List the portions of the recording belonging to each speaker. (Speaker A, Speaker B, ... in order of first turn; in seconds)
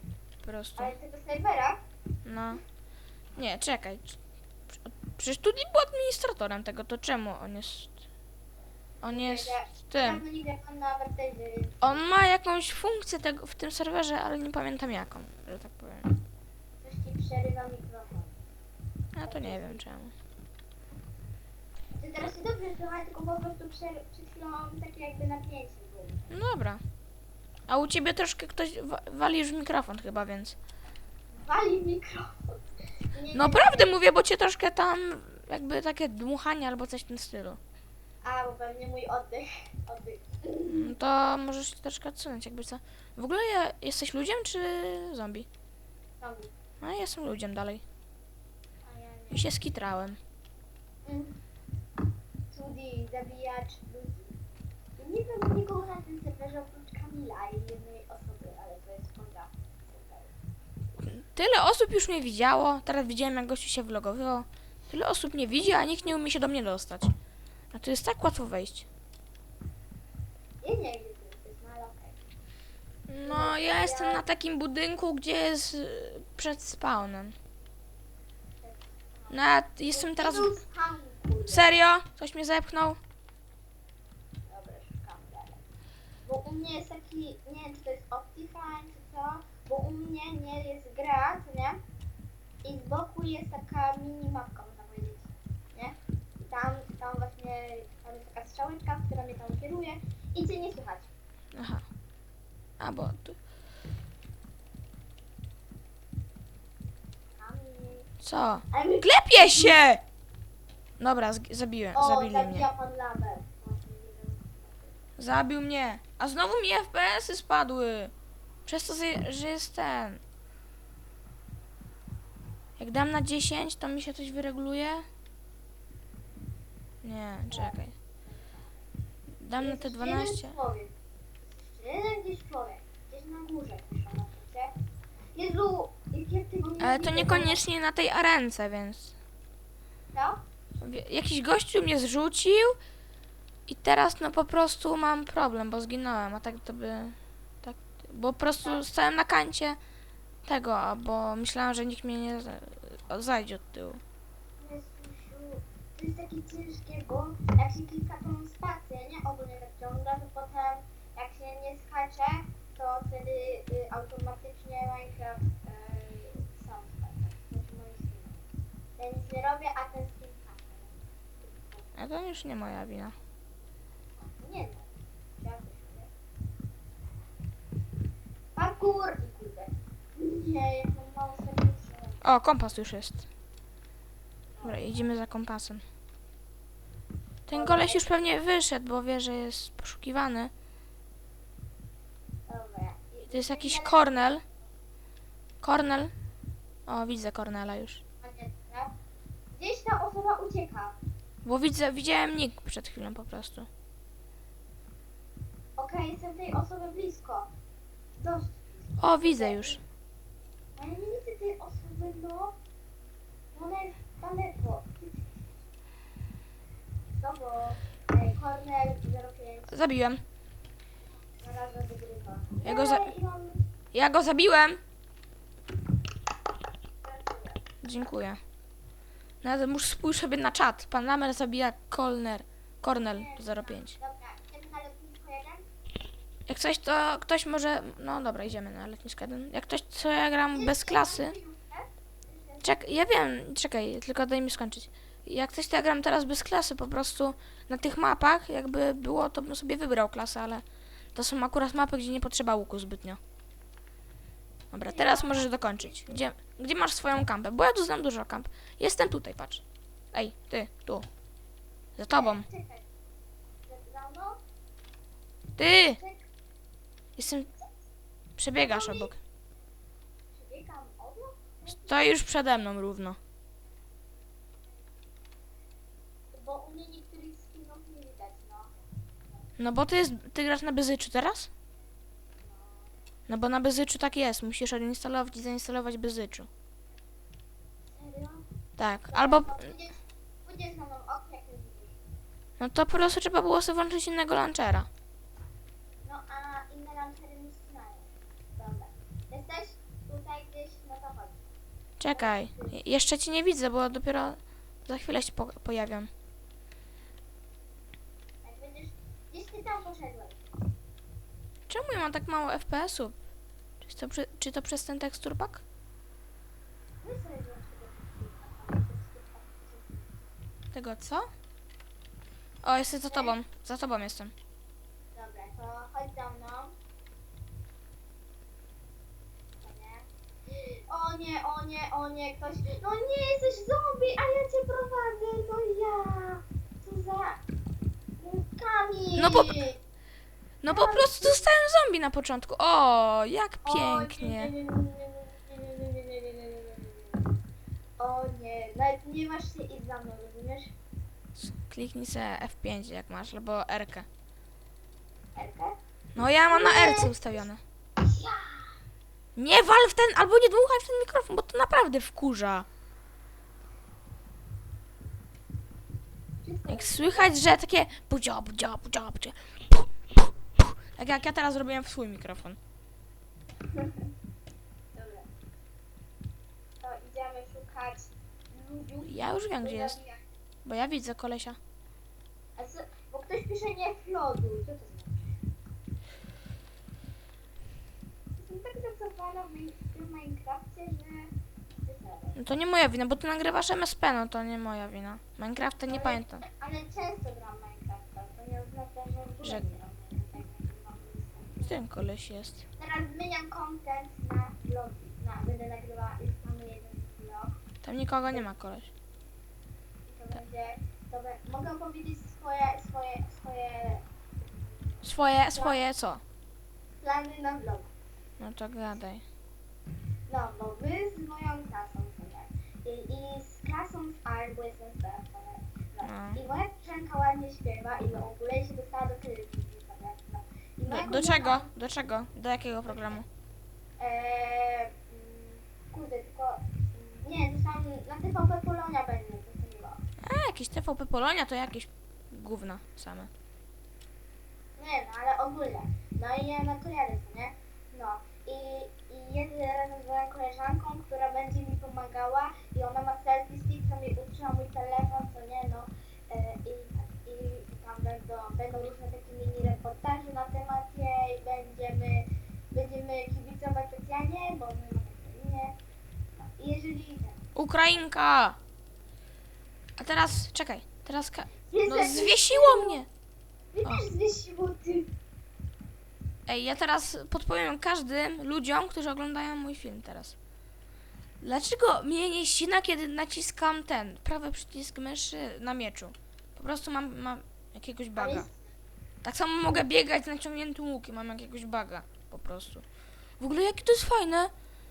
Speaker A: 0.4-0.9, 2.2-2.6, 3.4-4.2, 4.7-8.0, 9.0-10.2, 11.8-16.1, 19.1-20.1, 26.3-26.8, 27.7-30.6, 33.3-37.6, 40.7-45.5, 46.8-47.8, 49.3-50.2, 61.0-67.1, 67.7-68.9, 73.1-77.3, 79.3-80.5, 81.5-83.0, 101.5-101.8, 102.8-103.4, 108.2-110.0, 111.0-112.7, 115.2-118.1, 118.7-120.2, 122.8-125.0, 127.0-127.9, 129.4-130.5, 136.8-139.1, 140.8-142.8, 143.7-149.8, 150.4-154.0, 171.9-173.1, 182.2-183.2, 184.6-185.8, 187.5-190.5, 193.3-194.4, 195.6-196.1, 196.9-198.0, 201.4-203.7, 209.0-209.8, 219.7-220.2, 222.6-223.1, 223.9-224.8, 227.8-228.4, 229.4-233.9, 236.5-241.3, 242.6-253.2, 254.7-261.1, 262.0-262.4, 265.6-266.0, 267.2-267.5, 268.4-269.2, 271.7-273.2, 279.6-281.5, 283.3-286.5, 288.8-289.7, 292.6-294.9, 302.0-306.1, 311.7-313.1, 313.8-315.6, 320.7-321.3, 322.6-324.3, 339.2-339.6, 340.6-344.5, 351.4-354.1, 356.1-357.6, 359.4-362.7, 366.7-369.9, 370.9-372.6, 379.1-380.0, 380.6-381.6, 392.4-396.4, 401.6-402.6, 407.8-408.9, 415.0-416.2, 418.4-419.2, 426.0-426.4, 430.9-433.2, 440.2-443.3, 467.5-468.6, 470.0-473.1, 476.5-480.4, 481.4-488.4, 489.2-492.8, 493.4-494.5
Speaker B: 0.8-1.8, 9.1-12.0, 16.8-18.4, 19.2-19.8, 21.9-26.2, 31.3-32.6, 33.1-34.0, 38.2-40.9, 46.2-46.5, 48.8-49.5, 51.0-51.4, 52.5-54.3, 55.0-60.3, 70.6-72.2, 73.2-74.2, 78.6-81.8, 84.5-85.6, 86.2-91.8, 92.6-101.1, 107.4-108.1, 108.7-109.7, 111.9-115.0, 127.5-128.8, 129.6-130.9, 131.5-134.7, 135.3-137.6, 140.1-140.4, 154.6-168.4, 169.0-171.9, 174.2-176.1, 178.6-182.2, 184.6-185.0, 187.5-188.0, 192.5-194.4, 198.2-198.9, 199.6-200.9, 205.8-207.5, 208.2-209.8, 210.8-212.5, 213.5-215.5, 217.2-219.7, 221.4-223.6, 227.0-227.6, 232.9-235.7, 240.5-243.0, 254.8-256.2, 262.1-262.8, 263.7-264.4, 265.9-266.2, 268.6-269.1, 270.3-272.1, 276.3-278.8, 282.4-282.9, 287.9-288.4, 289.1-291.9, 296.0-301.4, 302.1-302.9, 308.4-310.4, 317.0-320.1, 323.1-323.3, 325.1-326.7, 329.6-337.4, 338.2-339.8, 340.7-341.5, 343.6-347.3, 348.0-350.7, 355.3-355.8, 356.5-357.4, 358.0-358.7, 366.4-367.3, 373.7-374.1, 374.9-375.3, 376.8-380.2, 382.6-385.4, 388.4-391.3, 391.9-392.4, 395.9-401.8, 402.8-407.6, 410.1-415.8, 417.0-417.9, 420.3-431.7, 432.9-433.2, 434.0-440.0, 444.8-465.8, 466.4-467.4, 471.7-473.0, 473.7-475.1, 488.1-488.6